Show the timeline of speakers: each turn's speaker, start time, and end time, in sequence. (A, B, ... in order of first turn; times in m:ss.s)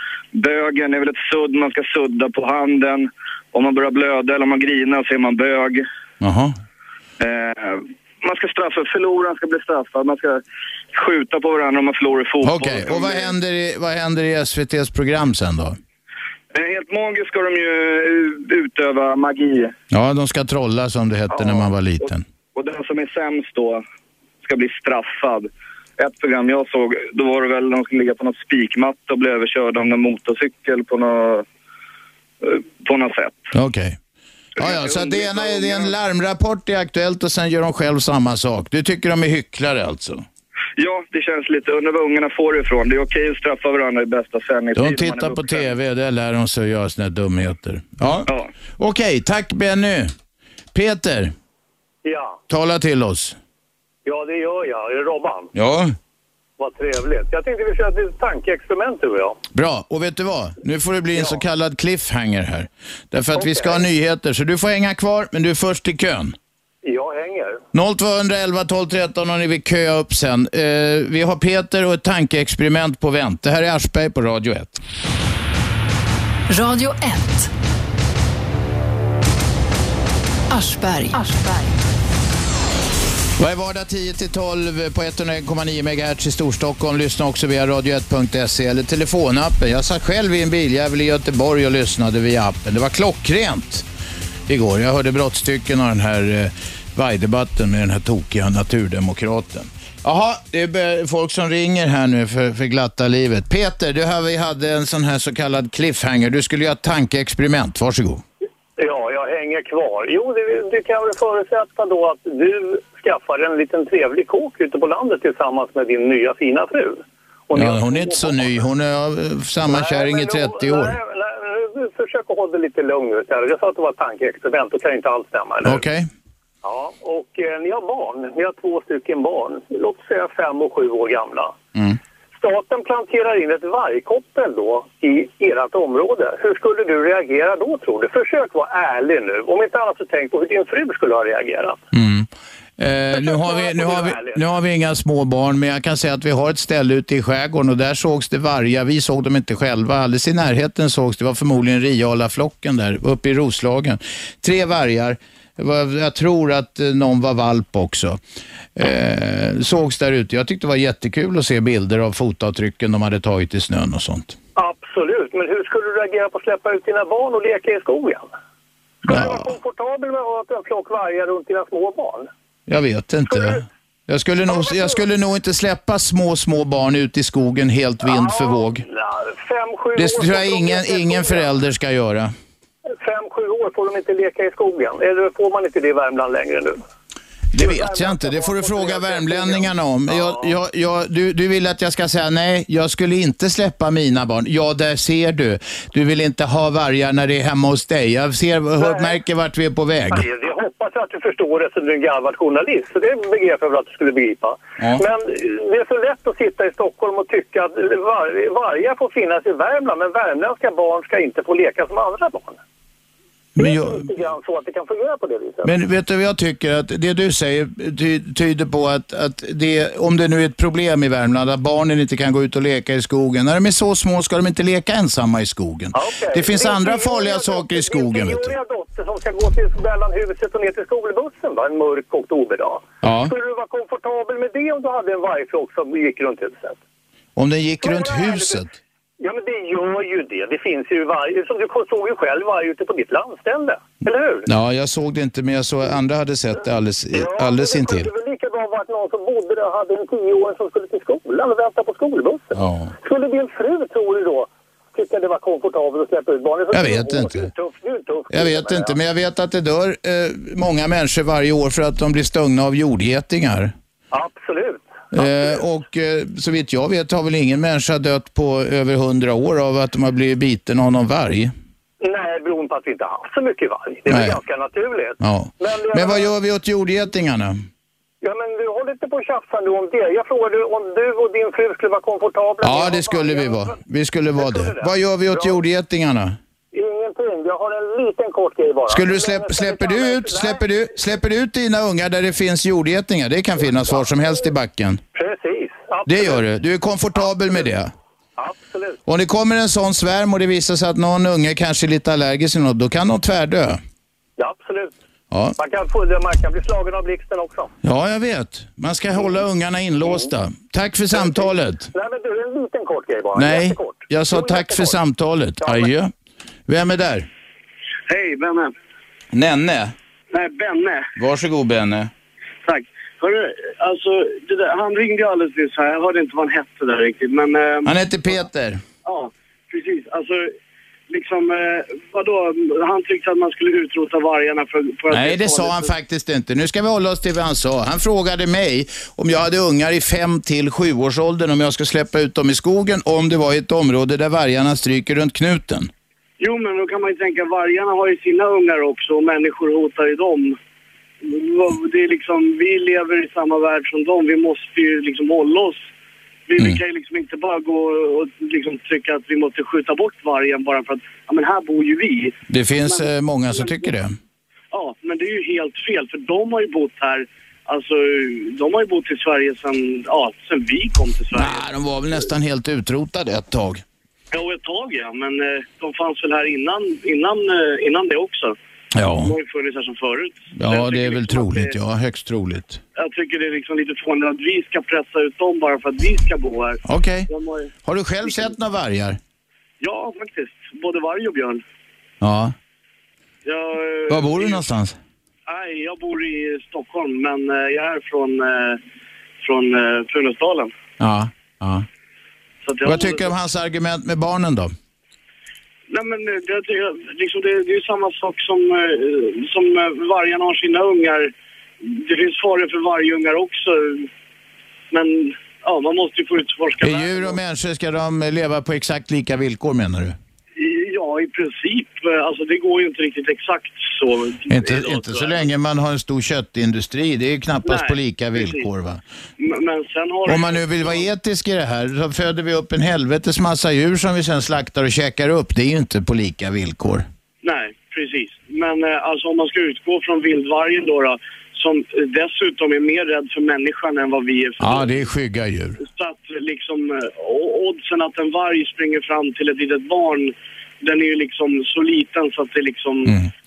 0:00.3-0:05.8 A
0:06.2-0:06.6 B
0:07.2-0:10.4 A
0:10.9-0:13.3 A
0:12.4-0:15.8 B
0:16.5-0:19.7 A
0:19.9-0:22.2 B
0:21.3-0:21.7 A
0:22.6-0:23.8 A
0:24.4-0:31.4 A
0:32.4-0:33.4 A
0:33.5-0:34.0 B
0:34.6-0:40.2 B
0:34.6-0:35.9 A
0:40.8-0:45.7 A
0:44.8-0:50.1 B
0:50.7-0:51.3 B
0:52.0-0:52.4 C
0:52.5-0:53.4 B
0:54.1-0:55.5 C
0:55.6-0:56.0 B
0:56.6-0:59.4 C
0:59.5-1:06.4 B
1:03.4-1:03.9 C
1:06.8-1:07.6 C
1:07.7-1:14.8 B
1:16.5-1:17.5 D
1:20.5-1:21.7 D
1:23.4-1:33.8 B
1:34.5-1:48.2 B
1:48.8-1:58.6 C
1:57.5-2:01.0 B
1:59.7-2:05.8 C
2:05.6-2:06.1 B
2:06.6-2:11.6 C
2:12.4-2:21.8 C
2:21.9-2:38.2 B
2:23.1-2:24.4 C
2:38.8-2:44.4 B
2:44.6-2:48.3 C
2:49.0-2:52.3 C
2:49.1-2:49.5 B
2:52.7-2:58.8 B
2:53.3-2:53.6 C
2:54.5-2:55.0 C
2:58.0-3:01.5 C
3:00.0-3:02.3 B
3:03.0-3:06.8 C
3:07.5-3:20.3 B
3:07.6-3:10.5 C
3:18.8-3:19.1 C
3:20.1-3:32.6 C
3:33.6-3:34.1 B
3:33.6-3:35.7 C
3:35.6-3:48.6 B
3:45.9-3:56.8 C
3:53.0-3:53.3 B
3:57.4-3:58.7 B
3:57.8-3:58.6 C
3:59.2-4:04.5 C
4:04.5-4:08.1 B
4:07.1-4:19.0 C
4:12.6-4:12.9 B
4:16.7-4:17.5 B
4:18.3-4:23.7 B
4:24.1-4:25.6 C
4:25.1-4:31.5 B
4:32.0-4:36.3 C
4:34.1-4:34.4 B
4:35.2-4:37.6 B
4:38.2-4:43.8 C
4:42.6-4:46.4 B
4:44.4-4:45.6 C
4:46.7-4:50.7 C
4:48.9-4:55.0 B
4:53.7-4:54.1 C
4:55.1-4:56.5 C
4:56.1-4:57.9 B
4:57.2-4:57.7 C
4:58.4-4:59.0 C
4:59.1-5:03.8 B
5:04.4-5:04.9 C
5:05.3-5:05.6 B
5:05.6-5:07.7 C
5:07.8-5:11.9 B
5:11.1-5:15.0 C
5:13.4-5:16.1 B
5:15.6-5:15.9 C
5:16.7-5:17.3 B
5:18.1-5:18.7 E
5:19.3-5:19.9 B
5:20.3-5:21.1 E
5:21.2-5:22.1 B
5:22.6-5:28.4 E
5:27.8-5:28.8 B
5:29.0-5:30.5 E
5:31.1-5:35.9 E
5:35.1-5:45.9 B
5:46.4-5:50.6 E
5:51.2-5:55.9 E
5:56.5-6:02.4 E
6:02.5-6:04.2 B
6:02.9-6:03.9 E
6:04.7-6:11.6 E
6:11.3-6:13.8 B
6:14.3-6:18.6 E
6:19.0-6:19.3 B
6:19.2-6:21.7 E
6:20.6-6:22.8 B
6:23.0-6:27.7 E
6:26.8-6:27.3 B
6:27.8-6:29.2 B
6:28.3-6:28.5 E
6:29.8-6:31.6 E
6:32.2-6:32.5 B
6:33.4-6:34.6 E
6:34.1-6:35.0 B
6:35.5-6:38.8 E
6:39.4-6:40.7 E
6:41.0-6:41.9 B
6:42.6-6:43.3 E
6:42.8-6:44.7 B
6:45.9-6:51.3 E
6:51.8-6:54.1 E
6:54.9-6:57.4 E
6:56.8-7:00.2 B
7:00.6-7:05.4 E
7:04.5-7:09.0 B
7:07.6-7:08.7 E
7:09.4-7:11.1 E
7:10.3-7:17.1 B
7:17.4-7:25.0 E
7:24.6-7:25.8 B
7:25.8-7:33.2 E
7:33.1-7:33.3 B